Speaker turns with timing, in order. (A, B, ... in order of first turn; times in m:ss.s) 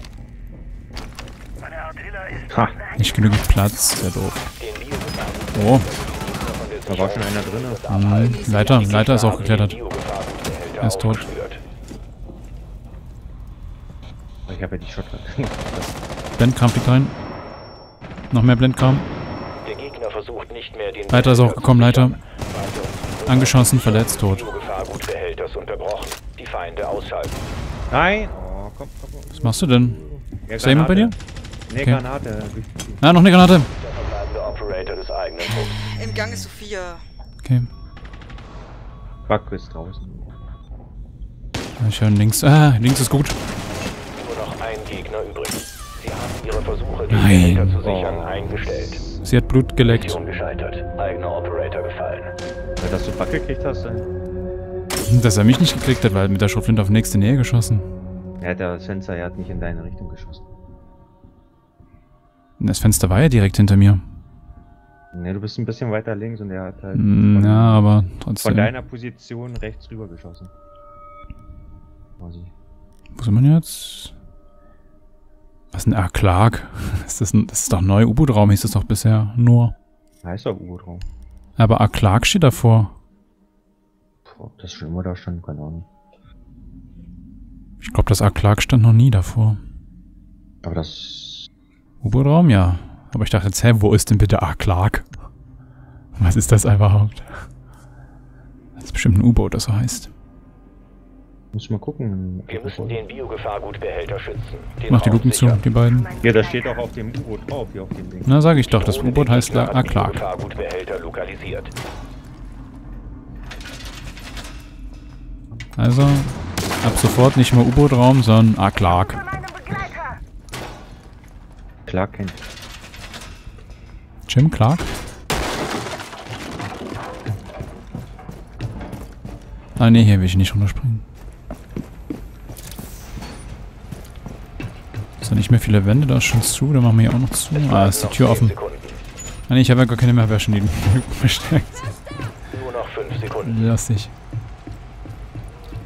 0:02.5-0:02.8 A
0:02.9-0:04.5 B
0:04.6-0:11.6 C
0:05.5-0:05.9 B
0:06.9-0:07.8 A
0:07.9-0:09.8 B
0:08.2-0:09.0 D
0:10.8-0:11.2 B
0:14.5-0:16.0 A
0:16.4-0:17.1 B
0:18.3-0:19.0 B
0:19.6-0:27.4 C
0:21.1-0:22.2 B
0:23.2-0:24.5 B
0:27.9-0:31.1 A
0:29.4-0:30.0 B
0:30.5-0:31.2 B
0:31.7-0:33.0 A
0:31.7-0:32.0 B
0:33.0-0:33.7 B
0:33.8-0:35.8 C
0:35.5-0:36.5 A
0:35.8-0:37.0 D
0:37.4-0:37.7 B
0:39.3-0:40.3 A
0:41.8-0:43.4 B
0:44.1-0:49.0 C
0:47.1-0:47.8 B
0:47.8-0:49.2 A
0:49.2-0:50.2 B
0:49.8-0:52.3 C
0:52.8-0:54.1 A
0:55.0-0:57.9 B
0:58.4-1:00.4 A
1:02.6-1:04.0 B
1:05.1-1:07.8 A
1:06.9-1:08.7 B
1:08.4-1:10.5 A
1:12.2-1:12.5 A
1:13.2-1:14.1 B
1:15.7-1:19.7 B
1:20.2-1:21.0 A
1:21.6-1:22.9 B
1:24.2-1:25.9 A
1:27.8-1:29.6 B
1:30.6-1:31.5 A
1:32.0-1:35.0 B
1:36.2-1:37.3 B
1:38.8-1:40.1 B
1:41.5-1:43.0 A
1:42.5-1:45.6 C
1:44.9-1:46.1 B
1:46.2-1:48.3 A
1:48.2-1:50.2 B
1:48.6-1:51.7 C
1:55.8-1:59.2 B
2:01.8-2:02.4 A
2:04.3-2:04.9 B
2:09.8-2:11.0 B
2:15.2-2:18.5 B
2:17.5-2:19.0 C
2:19.5-2:21.9 B
2:22.5-2:23.6 C
2:23.4-2:24.1 B